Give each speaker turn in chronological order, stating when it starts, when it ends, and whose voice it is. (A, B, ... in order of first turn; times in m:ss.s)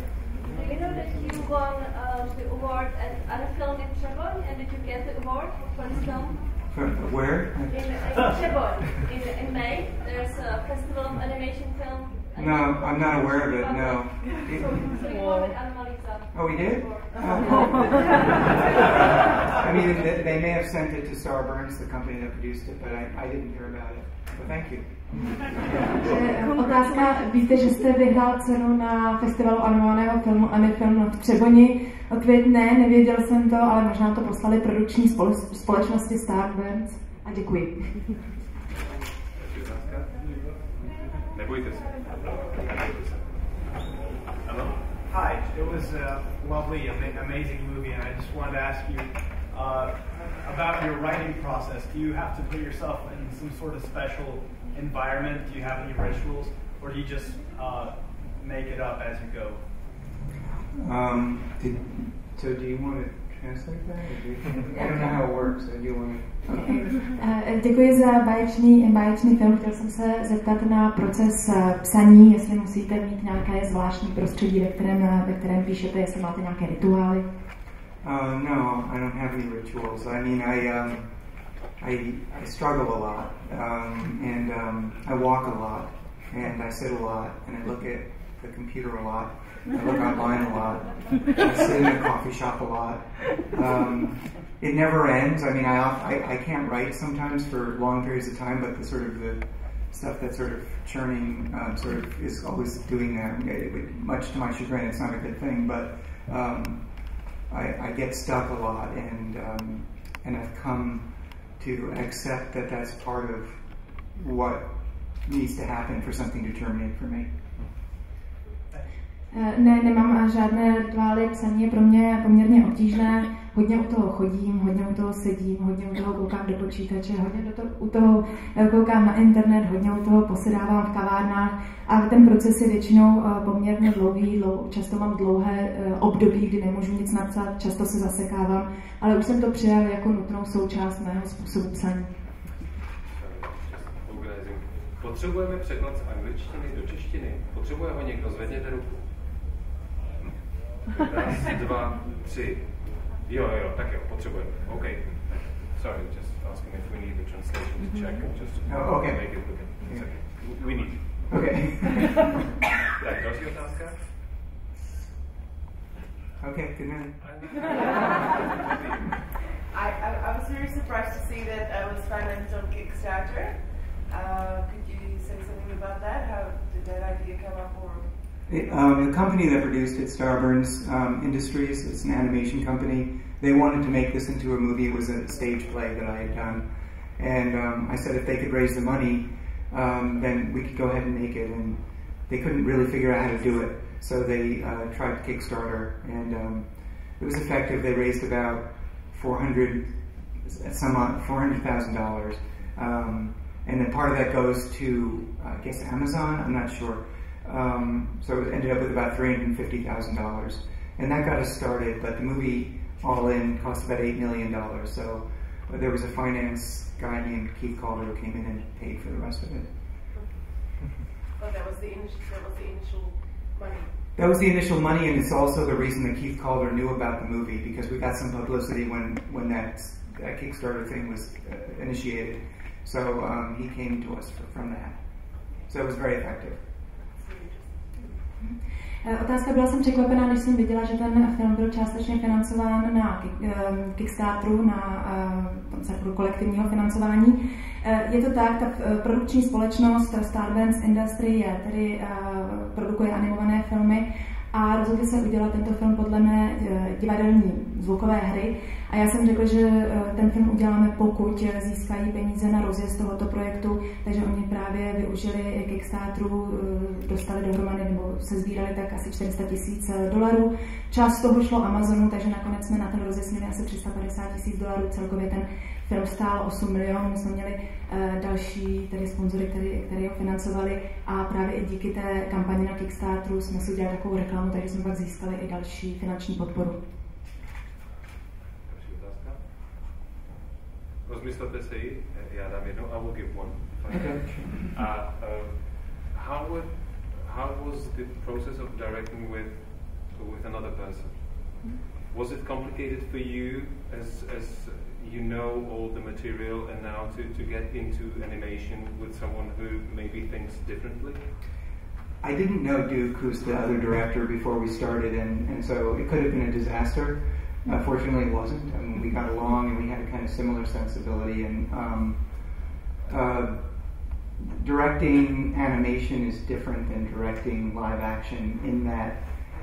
0:00.5-0:06.6 A
0:06.7-0:08.3 B
0:07.7-0:19.6 A
0:12.3-0:14.9 B
0:16.3-0:17.9 B
0:19.5-0:25.9 B
0:25.9-0:38.2 C
0:39.3-0:43.8 D
0:44.4-0:44.9 D
0:45.0-0:59.7 E
1:00.7-1:06.9 B
1:06.5-1:17.2 C
1:18.0-1:21.1 B
1:21.8-1:46.8 B
1:47.5-1:51.0 B
1:51.6-1:53.6 B
1:54.1-1:54.7 B
1:55.2-1:57.3 B
1:59.3-2:22.1 C
2:23.0-2:29.2 D
2:30.9-2:42.3 D
2:38.6-2:40.1 B
2:41.3-2:42.3 B
2:42.9-2:44.0 D
2:46.4-2:47.6 B
2:47.2-2:49.2 D
2:49.7-2:59.0 F
2:58.5-3:06.6 B
3:07.2-3:19.9 B
3:20.4-3:39.7 B
3:40.1-3:40.7 F
3:41.4-3:43.9 F
3:44.2-3:55.0 B
3:55.7-3:56.6 B
3:57.1-3:58.0 F
3:58.4-4:46.8 C
4:48.6-4:49.7 D
4:51.0-5:11.3 D
4:53.9-4:54.7 B
5:12.2-5:22.2 B
5:23.1-5:23.6 B
5:24.4-5:29.2 B